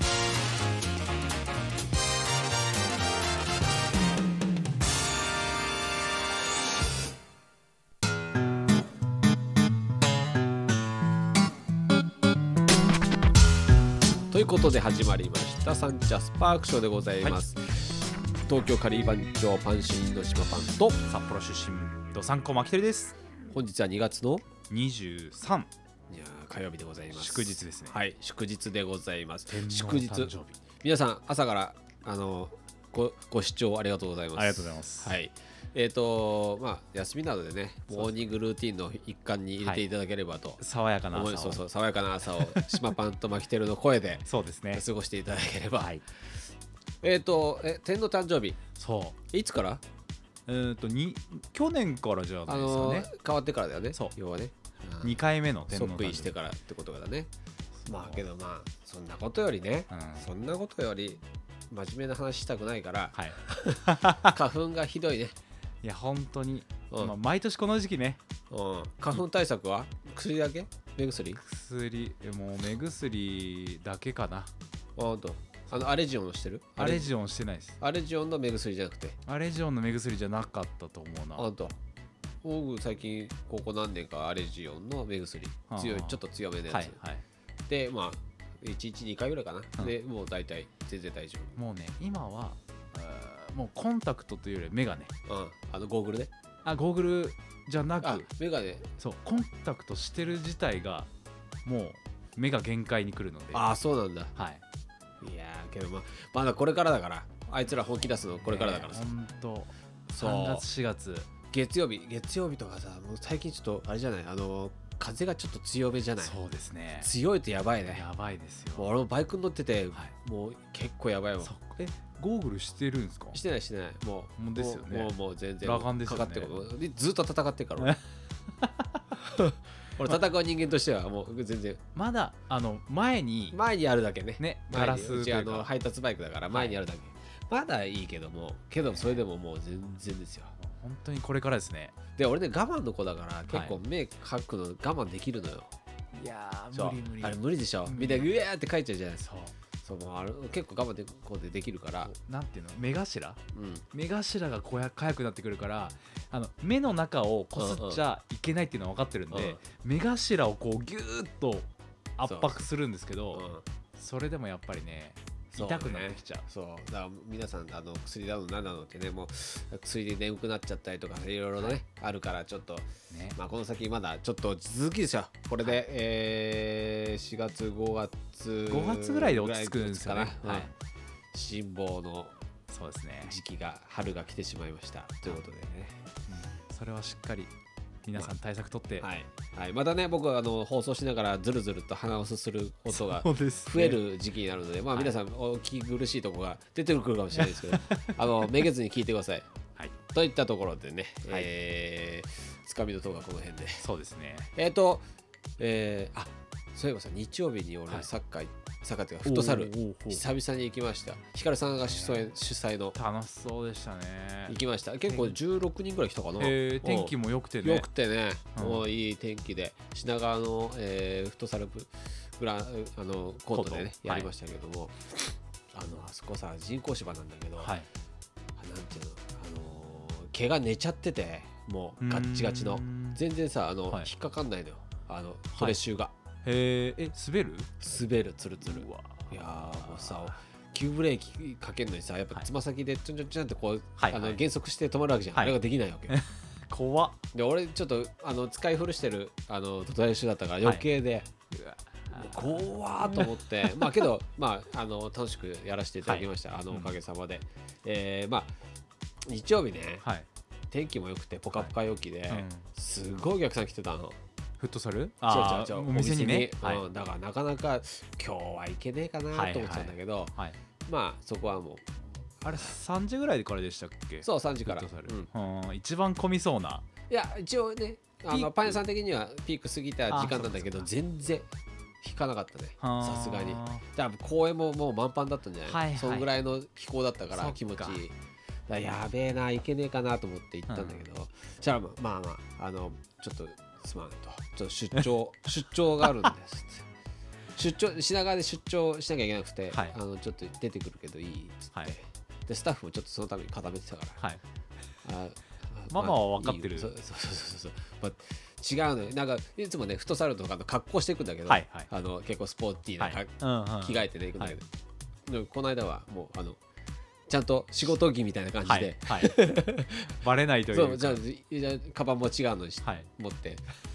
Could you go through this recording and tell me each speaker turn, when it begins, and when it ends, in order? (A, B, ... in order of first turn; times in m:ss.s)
0:14.3-0:17.9 A
0:18.4-0:21.0 A
0:21.0-0:23.1 B
0:23.5-0:24.4 A
0:24.7-0:25.7 B
0:26.1-0:46.0 A
0:27.1-0:28.0 B
0:29.5-0:30.6 B
0:34.4-0:35.2 B
0:37.9-0:38.3 B
0:40.6-0:41.6 B
0:42.3-0:42.9 B
0:44.2-0:44.8 B
0:47.0-0:48.6 A
0:48.8-0:49.2 B
0:49.3-0:49.8 A
0:50.5-0:53.1 B
0:52.5-0:55.2 A
0:55.0-0:56.4 B
0:55.7-0:57.3 A
0:57.8-0:58.2 B
0:57.9-1:05.3 A
0:59.9-1:00.2 B
1:03.1-1:04.4 B
1:05.8-1:08.2 B
1:06.9-1:07.2 A
1:08.5-1:11.4 A
1:11.3-1:14.5 B
1:15.0-1:17.1 A
1:16.8-1:17.8 B
1:17.8-1:19.2 A
1:19.2-1:21.5 B
1:21.4-1:21.8 A
1:22.4-1:27.0 A
1:25.7-1:27.2 B
1:27.7-1:31.5 A
1:31.6-1:35.1 B
1:35.3-1:36.3 A
1:36.6-1:38.3 B
1:38.0-1:38.9 A
1:39.0-1:41.1 B
1:41.6-1:43.7 B
1:43.5-1:44.3 A
1:44.4-1:44.6 B
1:45.2-1:49.1 A
1:48.4-1:51.3 B
1:50.1-1:50.6 A
1:51.5-1:56.4 A
1:56.2-1:57.1 B
1:57.0-1:58.0 A
1:57.9-1:58.9 B
1:58.8-2:01.5 A
2:01.4-2:03.4 B
2:03.3-2:08.0 A
2:04.4-2:06.6 B
2:07.8-2:09.0 B
2:09.2-2:11.8 A
2:11.9-2:13.6 B
2:13.5-2:20.5 A
2:14.4-2:15.7 B
2:16.5-2:16.8 B
2:18.9-2:19.2 B
2:20.6-2:22.0 B
2:22.2-2:25.7 A
2:23.5-2:23.8 B
2:26.1-2:28.3 B
2:26.7-2:29.3 A
2:29.2-2:29.5 B
2:29.8-2:32.1 A
2:32.1-2:33.4 B
2:33.5-2:33.8 A
2:33.9-2:43.4 B
2:37.6-2:38.0 A
2:39.3-2:39.6 A
2:42.2-2:42.6 A
2:43.3-2:43.6 A
2:44.0-2:46.4 B
2:45.5-3:00.7 A
2:53.1-2:53.4 B
2:58.7-3:00.7 B
3:01.3-3:02.3 A
3:02.7-3:03.4 B
3:03.2-3:06.0 A
3:06.3-3:07.5 B
3:08.0-3:09.1 B
3:09.0-3:19.5 A
3:12.9-3:14.0 B
3:17.4-3:18.6 B
3:20.1-3:23.8 A
3:23.8-3:24.5 B
3:24.5-3:25.0 A
3:25.6-3:33.0 A
3:29.2-3:30.2 B
3:31.8-3:32.3 B
3:32.9-3:34.6 B
3:34.5-3:47.7 A
3:35.1-3:35.3 B
3:36.4-3:37.9 B
3:38.6-3:38.8 B
3:43.5-3:44.3 B
3:47.6-3:47.9 B
3:48.6-3:56.1 A
3:52.0-3:53.2 B
3:56.4-3:57.7 B
3:57.8-4:06.2 A
3:58.6-4:00.3 B
4:04.0-4:04.4 B
4:06.1-4:07.2 B
4:07.3-4:11.3 A
4:11.5-4:13.9 B
4:12.1-4:18.5 A
4:16.0-4:16.9 B
4:19.2-4:20.0 A
4:20.7-4:24.2 A
4:22.3-4:22.6 B
4:24.6-4:26.8 B
4:25.2-4:30.3 A
4:29.3-4:30.6 B
4:30.8-4:31.8 A
4:32.4-4:36.8 B
4:34.2-4:35.3 A
4:37.1-4:41.5 A
4:38.3-4:38.8 B
4:40.1-4:40.9 B
4:42.0-4:48.1 A
4:42.8-4:43.8 B
4:45.6-4:46.3 B
4:47.3-4:48.0 B
4:48.7-4:56.8 A
4:50.7-4:51.0 B
4:57.6-5:04.2 A
4:59.7-5:00.0 B
5:05.0-5:14.7 A
5:05.9-5:06.9 B
5:11.5-5:11.9 B
5:13.0-5:14.6 B
5:15.3-5:16.6 A
5:17.3-5:20.1 A
5:18.6-5:19.3 B
5:20.2-5:21.2 B
5:20.7-5:23.6 A